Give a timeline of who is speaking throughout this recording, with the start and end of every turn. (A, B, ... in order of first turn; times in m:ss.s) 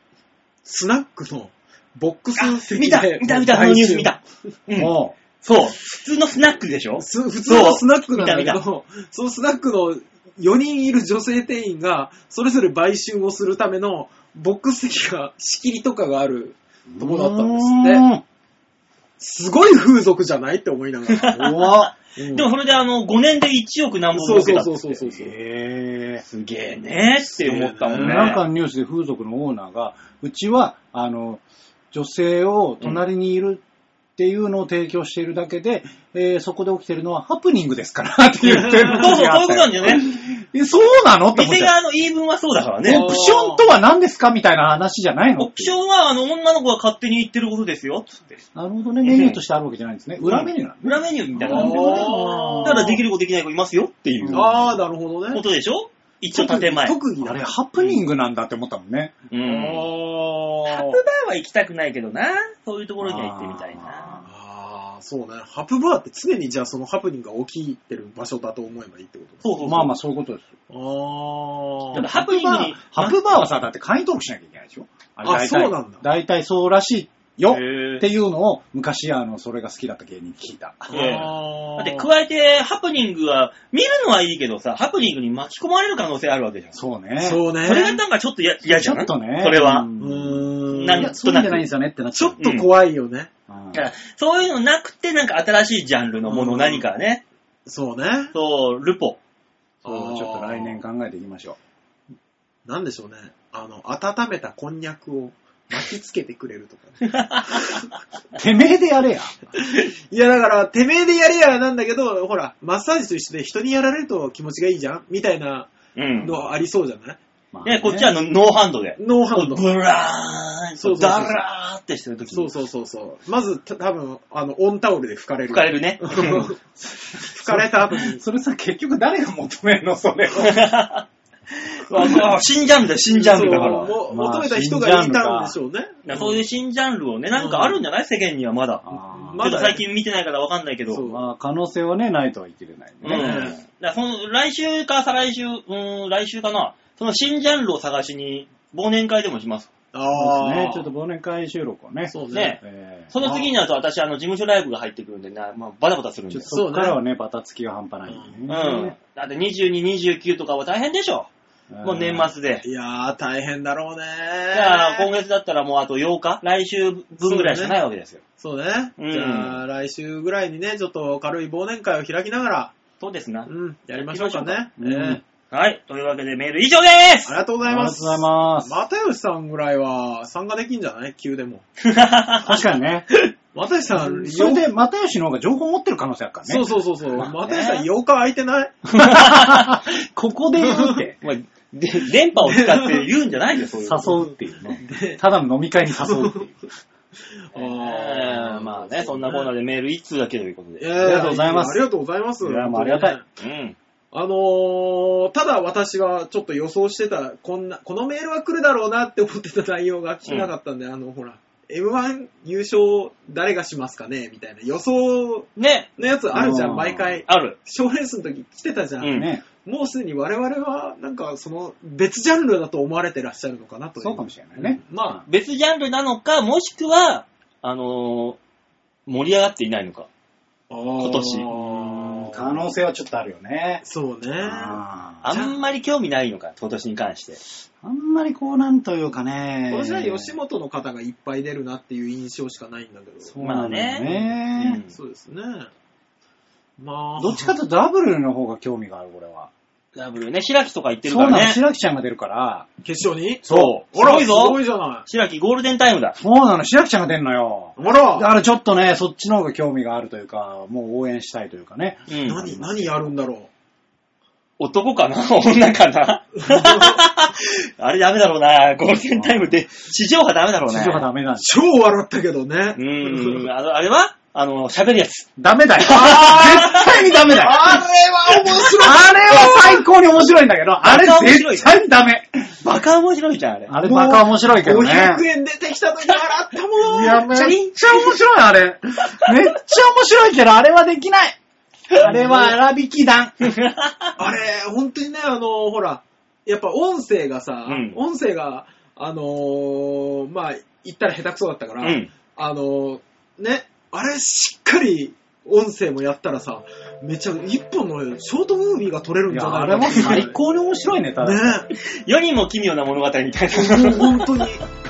0:00.6-0:04.2 A
0:02.3-0:08.6 B
0:04.8-0:05.2 C
0:07.0-0:18.0 A
0:16.9-0:18.2 C
0:19.2-0:21.4 A
0:21.2-0:25.0 B
0:21.3-0:21.9 C
0:22.2-0:22.5 A
0:24.1-0:25.3 A
0:25.1-0:26.2 C
0:26.2-0:28.4 B
0:27.2-0:28.4 A
0:27.9-0:33.6 C
0:34.2-0:41.7 C
0:38.4-0:39.1 A
0:38.9-0:40.1 B
0:41.3-0:43.1 B
0:42.8-0:45.7 C
0:42.8-0:43.7 A
0:45.4-0:48.4 B
0:48.5-0:53.0 C
0:49.0-0:49.4 B
0:50.2-0:54.6 B
0:51.4-0:53.0 A
0:54.2-0:54.8 C
0:54.3-0:55.4 A
0:55.3-0:57.0 B
0:56.3-0:57.5 A
0:57.2-0:59.2 C
0:59.3-0:59.8 B
0:59.4-1:01.0 A
1:00.7-1:04.1 B
1:03.0-1:04.3 C
1:04.2-1:09.4 A
1:09.4-1:09.9 B
1:09.6-1:10.5 C
1:10.7-1:12.0 A
1:11.9-1:13.2 B
1:12.0-1:20.9 C
1:15.2-1:16.0 A
1:17.5-1:18.0 B
1:20.9-1:22.1 A
1:20.9-1:26.8 B
1:26.7-1:27.4 C
1:27.2-1:28.0 A
1:27.6-1:29.9 B
1:28.6-1:32.4 C
1:30.0-1:31.1 A
1:30.7-1:31.6 B
1:32.1-1:33.3 A
1:32.4-1:32.7 B
1:33.5-1:33.8 C
1:33.7-1:37.2 B
1:36.2-1:36.8 A
1:37.6-1:38.3 A
1:38.3-1:39.2 B
1:39.8-1:40.8 A
1:39.8-1:41.6 C
1:42.6-1:47.9 A
1:47.1-1:47.8 B
1:48.3-1:49.4 C
1:49.6-1:57.2 A
1:56.0-1:56.4 B
1:57.5-1:58.1 C
1:57.6-2:02.5 B
1:59.0-1:59.7 A
2:00.8-2:01.4 A
2:02.3-2:06.6 A
2:05.5-2:06.5 B
2:06.8-2:10.5 C
2:07.2-2:08.2 A
2:10.3-2:13.9 B
2:13.1-2:16.4 A
2:13.3-2:15.6 C
2:16.0-2:18.8 B
2:17.3-2:17.8 A
2:18.8-2:19.5 C
2:18.9-2:19.8 A
2:19.4-2:21.0 B
2:20.9-2:21.2 A
2:21.0-2:23.5 C
2:23.0-2:29.7 B
2:23.1-2:23.6 A
2:29.9-2:30.9 A
2:30.1-2:33.1 C
2:32.1-2:32.6 A
2:32.3-2:32.6 B
2:33.1-2:36.6 B
2:33.2-2:33.5 A
2:36.3-2:38.9 C
2:36.5-2:37.0 A
2:38.1-2:38.4 A
2:38.5-2:41.3 B
2:41.7-2:42.3 C
2:41.8-2:42.6 B
2:42.6-2:45.1 A
2:44.5-2:48.2 B
2:47.2-2:47.8 A
2:48.4-2:52.7 A
2:49.0-2:49.6 B
2:53.0-2:54.6 B
2:53.5-2:55.2 A
2:54.8-2:55.2 C
2:55.5-2:57.3 B
2:57.2-3:01.6 A
2:57.6-2:58.7 C
3:01.8-3:02.6 B
3:02.4-3:03.1 C
3:03.5-3:04.6 A
3:03.9-3:07.3 C
3:06.4-3:08.8 A
3:07.4-3:07.9 B
3:08.8-3:09.8 B
3:09.0-3:11.2 C
3:10.6-3:11.0 A
3:11.2-3:14.3 B
3:12.4-3:13.1 A
3:13.8-3:16.5 C
3:14.8-3:15.2 A
3:16.0-3:16.5 A
3:17.4-3:19.5 A
3:17.5-3:21.3 B
3:20.8-3:23.2 A
3:21.0-3:21.8 C
3:22.4-3:23.2 C
3:23.4-3:23.8 B
3:24.1-3:45.2 A
3:30.2-3:30.5 B
3:35.6-3:35.9 B
3:36.3-3:37.2 C
3:37.2-3:37.6 B
3:39.0-3:39.3 B
3:39.0-3:39.4 C
3:44.0-3:45.2 C
3:45.2-3:48.4 B
3:49.0-3:50.1 B
3:50.7-3:52.6 A
3:51.0-3:51.5 B
3:51.5-3:53.8 C
3:53.8-3:55.6 A
3:54.4-3:55.2 C
3:55.2-3:57.4 B
3:57.8-4:00.3 C
3:59.7-4:03.3 A
4:03.2-4:04.8 C
4:03.4-4:05.0 B
4:04.9-4:05.7 A
4:06.8-4:07.6 A
4:07.2-4:09.5 C
4:09.9-4:11.6 B
4:11.0-4:12.7 C
4:12.8-4:15.0 A
4:13.4-4:16.2 B
4:16.2-4:23.1 C
4:17.8-4:18.3 A
4:22.1-4:22.4 B
4:22.2-4:23.5 A
4:24.6-4:31.0 B
4:26.4-4:27.0 A
4:29.2-4:29.5 C
4:30.7-4:31.5 C
4:31.4-4:33.5 A
4:32.8-4:37.1 B
4:35.4-4:37.8 C
4:36.8-4:39.8 A
4:38.8-4:42.5 C
4:40.8-4:41.8 B
4:42.6-4:43.7 B
4:43.7-4:45.2 C
4:43.8-4:47.6 A
4:46.8-4:51.4 C
4:47.3-4:48.1 B
4:52.0-4:53.3 C
4:52.0-4:52.6 A
4:53.4-4:54.1 B
4:54.2-5:10.4 A
4:57.6-4:58.0 B
5:01.8-5:02.1 B
5:09.3-5:11.7 C
5:11.2-5:11.7 A
5:11.8-5:14.4 B
5:13.5-5:14.6 A